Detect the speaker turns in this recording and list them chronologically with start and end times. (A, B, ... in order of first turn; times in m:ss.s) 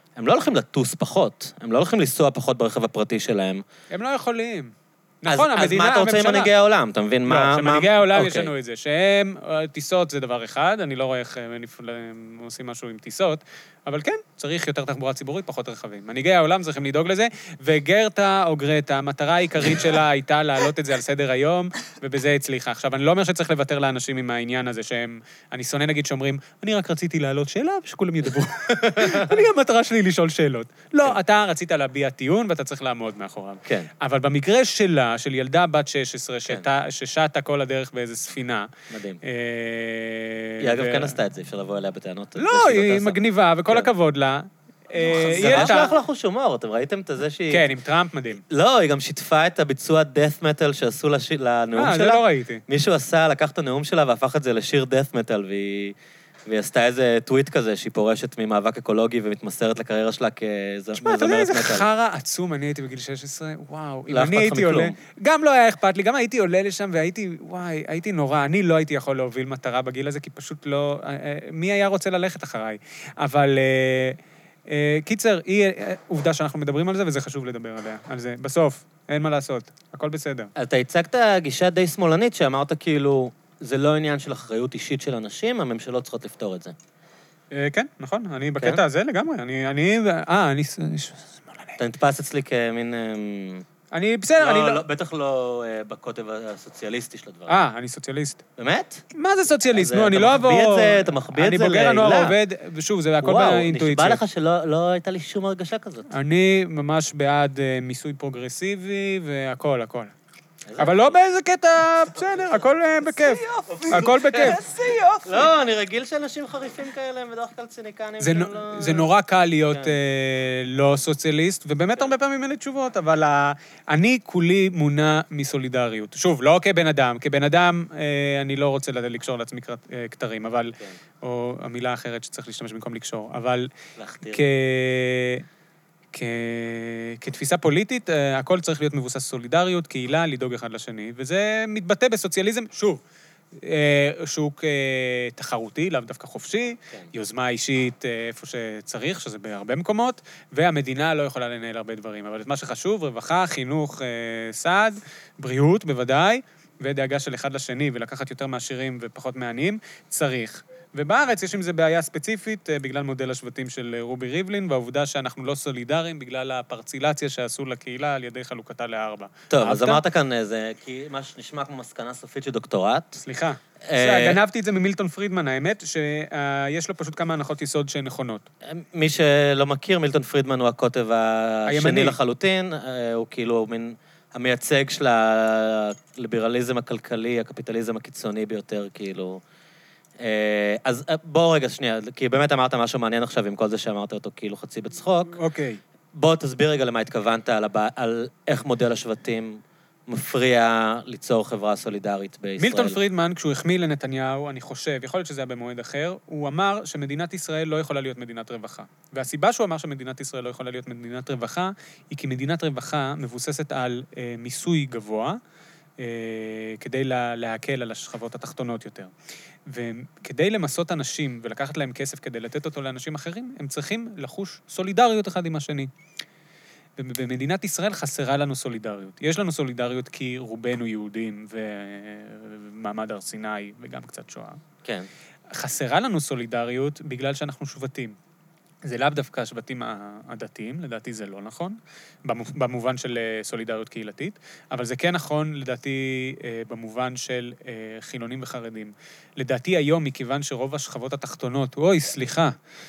0:00.2-0:03.6 A
0:03.9-0:06.5 B
0:05.3-0:08.5 A
0:07.3-0:38.7 B
0:28.8-0:29.3 A
0:38.9-0:39.2 A
0:39.2-0:41.2 B
0:40.6-0:43.2 A
0:42.4-0:45.9 B
0:45.0-0:45.9 C
0:45.2-0:47.7 A
0:47.5-0:48.4 B
0:48.5-1:01.8 A
0:51.8-0:52.6 B
1:01.0-1:20.5 B
1:04.1-1:04.9 A
1:20.5-1:26.7 A
1:27.5-1:31.8 B
1:31.8-1:33.6 A
1:33.9-1:34.8 B
1:34.4-1:37.6 A
1:37.5-1:38.4 B
1:38.6-1:39.0 A
1:39.1-1:44.2 B
1:39.7-1:42.4 A
1:43.2-1:46.1 A
1:46.1-1:50.1 B
1:50.7-1:51.2 A
1:50.8-1:54.6 B
1:53.2-1:55.5 C
1:54.0-1:54.5 A
1:55.2-1:59.1 A
1:58.2-2:13.7 B
2:14.0-2:14.4 A
2:14.3-2:15.4 B
2:16.1-2:23.0 B
2:23.5-2:50.0 B
2:49.5-2:53.2 A
2:53.2-2:58.4 B
2:53.8-2:54.4 A
2:58.6-3:09.4 A
3:01.6-3:02.2 B
3:10.2-3:15.4 A
3:15.3-3:15.8 B
3:16.1-3:23.0 A
3:22.6-3:35.4 B
3:36.0-3:39.1 B
3:39.6-3:45.9 B
3:47.0-3:54.6 B
3:55.5-3:58.2 B
3:58.8-4:12.5 B